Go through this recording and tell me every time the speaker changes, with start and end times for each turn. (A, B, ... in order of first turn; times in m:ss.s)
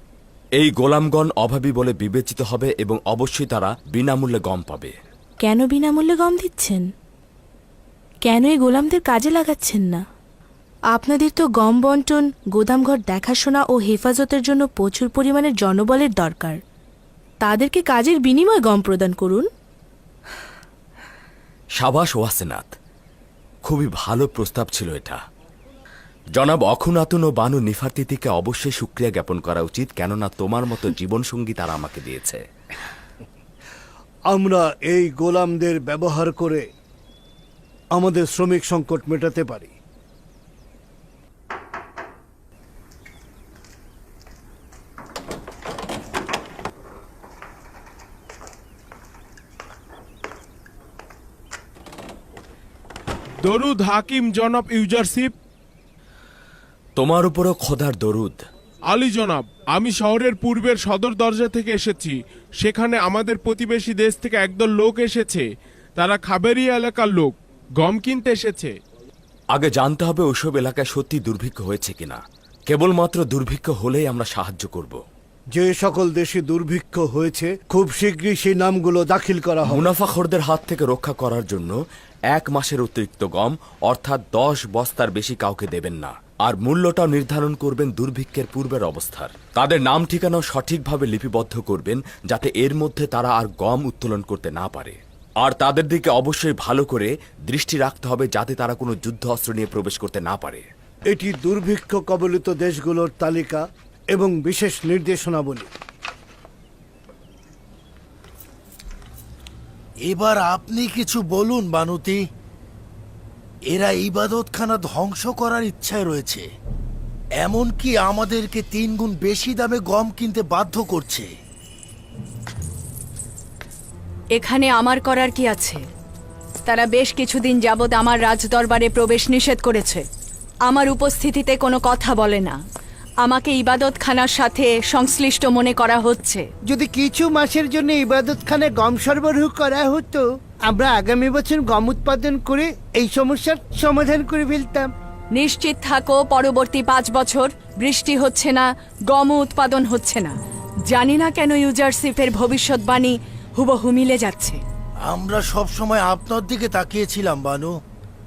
0:00.6-0:04.9 A
0:05.4-0:06.9 B
0:08.2-0:10.0 B
0:10.9-0:16.6 B
0:17.4-0:19.5 B
0:21.8-0:22.7 A
0:23.6-0:25.2 A
0:26.3-0:32.4 A
0:34.3-0:36.6 C
0:38.0-0:39.7 C
0:53.4-0:55.3 D
0:57.0-0:58.4 A
0:58.9-1:08.7 D
1:09.5-1:15.0 A
1:15.6-1:19.7 C
1:19.6-1:21.8 A
1:22.3-1:40.6 A
1:41.1-1:43.6 C
1:44.1-1:45.7 C
1:50.0-1:52.2 E
1:53.7-1:56.4 E
1:57.4-2:01.3 E
2:04.3-2:05.8 F
2:06.6-2:10.0 F
2:10.7-2:12.6 F
2:13.2-2:16.4 F
2:16.7-2:24.9 G
2:25.3-2:30.3 F
2:30.9-2:34.6 F
2:35.1-2:37.7 E